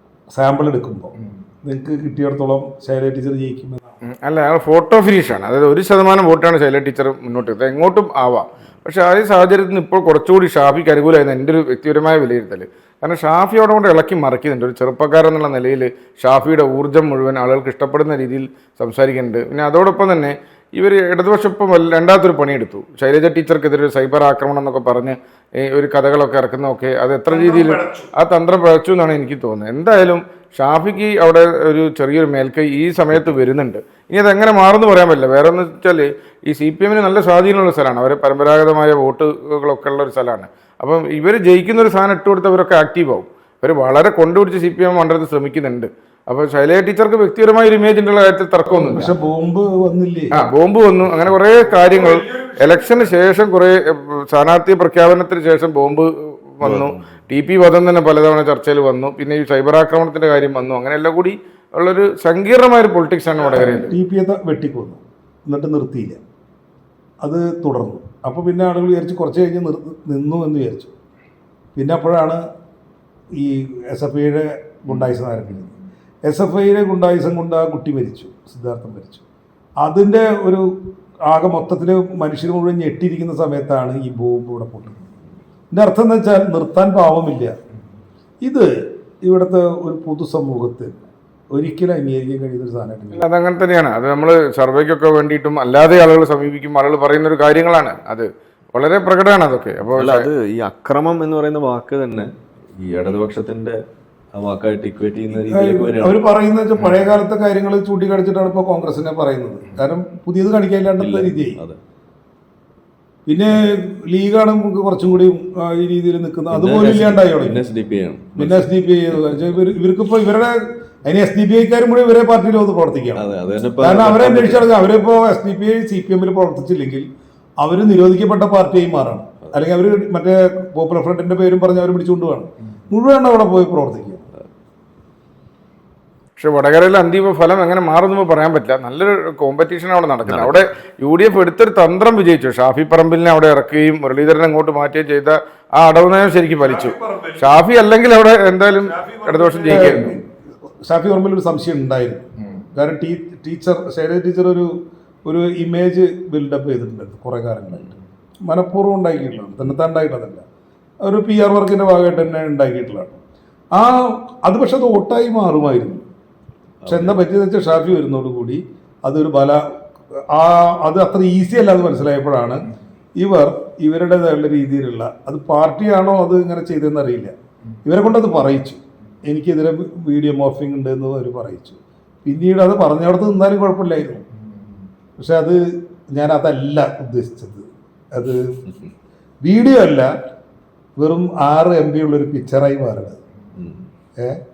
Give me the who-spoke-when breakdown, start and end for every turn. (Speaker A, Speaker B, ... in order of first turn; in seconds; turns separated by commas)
Speaker A: 0.3-3.8, Speaker B: 4.0-49.1, Speaker A: 27.3-28.1, Speaker A: 48.9-50.3, Speaker B: 50.3-63.9, Speaker A: 51.7-53.0, Speaker C: 56.6-57.0, Speaker A: 63.5-66.2, Speaker A: 67.2-70.9, Speaker A: 71.7-72.4, Speaker A: 73.3-79.2, Speaker A: 79.8-80.7, Speaker A: 81.3-85.0, Speaker A: 85.7-87.6, Speaker A: 88.4-93.2, Speaker B: 93.1-100.3, Speaker C: 99.9-103.8, Speaker C: 104.3-106.2, Speaker A: 105.5-111.6, Speaker C: 111.0-111.8, Speaker A: 113.3-117.6, Speaker C: 116.5-119.6, Speaker A: 118.3-123.2, Speaker C: 123.2-124.7, Speaker A: 123.8-127.1, Speaker A: 127.6-134.2, Speaker B: 136.4-150.2, Speaker C: 140.2-140.6, Speaker A: 146.6-147.4, Speaker A: 148.8-150.3, Speaker A: 150.8-154.7, Speaker A: 155.2-160.4, Speaker A: 161.0-163.2, Speaker A: 163.7-166.0, Speaker C: 166.8-167.2, Speaker A: 166.8-177.3, Speaker A: 177.8-184.2, Speaker A: 185.2-188.6, Speaker A: 189.4-190.1, Speaker A: 191.0-193.2, Speaker C: 193.5-193.8